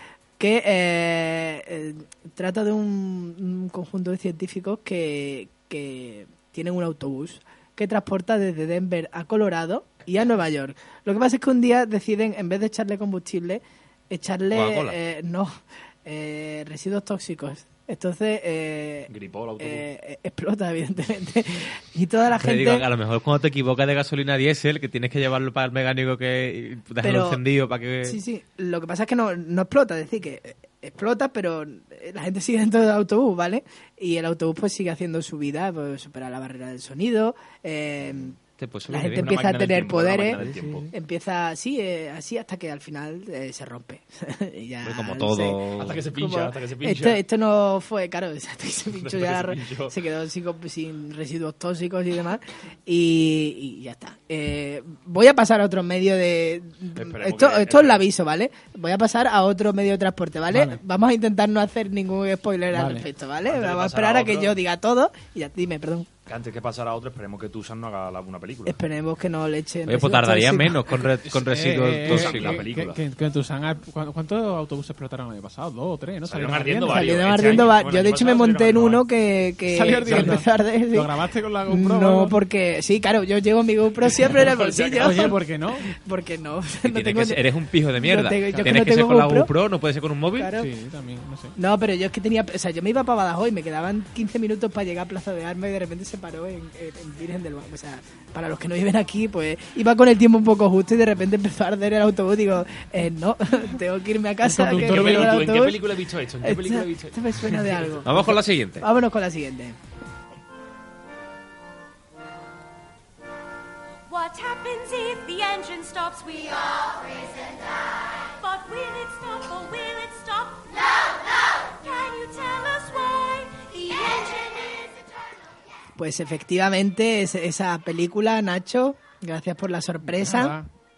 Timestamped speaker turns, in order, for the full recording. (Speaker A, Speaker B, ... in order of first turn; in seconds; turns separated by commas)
Speaker A: 0.4-22.8, Speaker B: 14.5-15.0, Speaker C: 19.1-19.9, Speaker B: 22.4-28.2, Speaker A: 27.0-27.4, Speaker A: 28.0-38.4, Speaker B: 38.6-39.3, Speaker A: 38.9-66.1, Speaker C: 38.9-40.9, Speaker B: 40.4-40.9, Speaker B: 44.8-46.0, Speaker C: 45.8-47.2, Speaker C: 48.9-50.0, Speaker C: 56.9-58.1, Speaker D: 60.5-60.8, Speaker D: 62.7-63.0, Speaker C: 63.4-64.6, Speaker C: 66.3-68.8, Speaker A: 68.7-70.8, Speaker B: 69.9-72.6, Speaker D: 71.3-77.1, Speaker C: 72.0-73.0, Speaker C: 76.2-79.0, Speaker A: 76.8-81.1, Speaker D: 79.7-82.3, Speaker C: 80.0-80.4, Speaker A: 81.7-87.4, Speaker C: 84.0-85.4, Speaker D: 85.0-85.8, Speaker B: 86.8-90.5, Speaker A: 88.0-89.5, Speaker A: 90.4-90.7, Speaker D: 90.6-91.5, Speaker A: 91.5-105.8, Speaker D: 104.4-105.4, Speaker C: 104.7-108.1, Speaker A: 106.4-109.8, Speaker B: 108.0-108.8, Speaker E: 114.1-117.9, Speaker E: 118.4-125.0, Speaker A: 126.0-130.6, Speaker D: 130.0-130.7